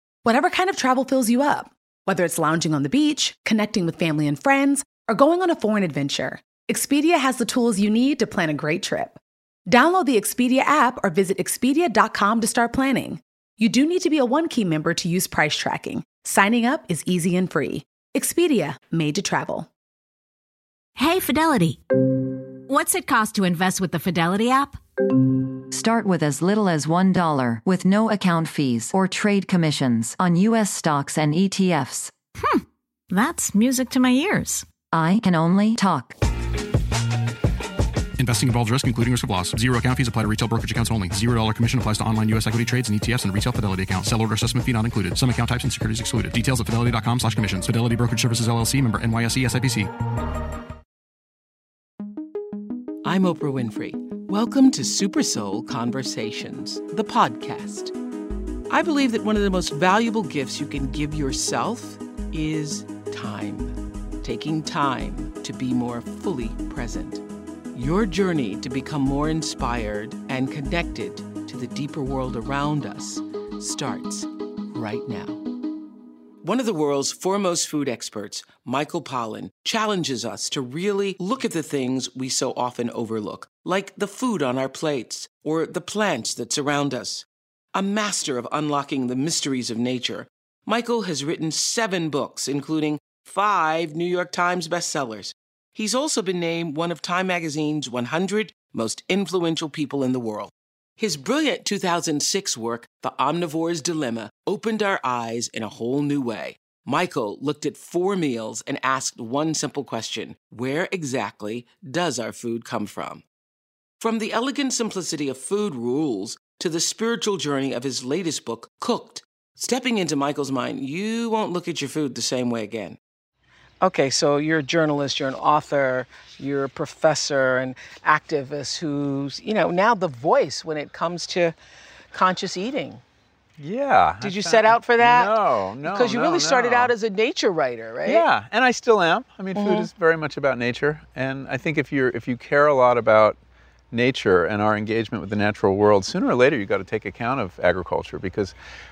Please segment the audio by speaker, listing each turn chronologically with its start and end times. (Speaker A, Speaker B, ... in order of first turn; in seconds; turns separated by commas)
Speaker A: 0.2-19.7, Speaker B: 21.0-24.8, Speaker C: 25.7-32.1, Speaker B: 32.4-34.7, Speaker C: 34.9-36.2, Speaker D: 38.2-49.9, Speaker E: 53.0-57.9, Speaker E: 58.7-75.4, Speaker E: 76.4-113.2, Speaker E: 114.0-123.0, Speaker E: 123.8-131.6, Speaker E: 132.1-133.0, Speaker F: 133.6-136.9, Speaker E: 134.2-138.2, Speaker F: 138.1-143.4, Speaker E: 139.6-139.9, Speaker F: 143.9-148.6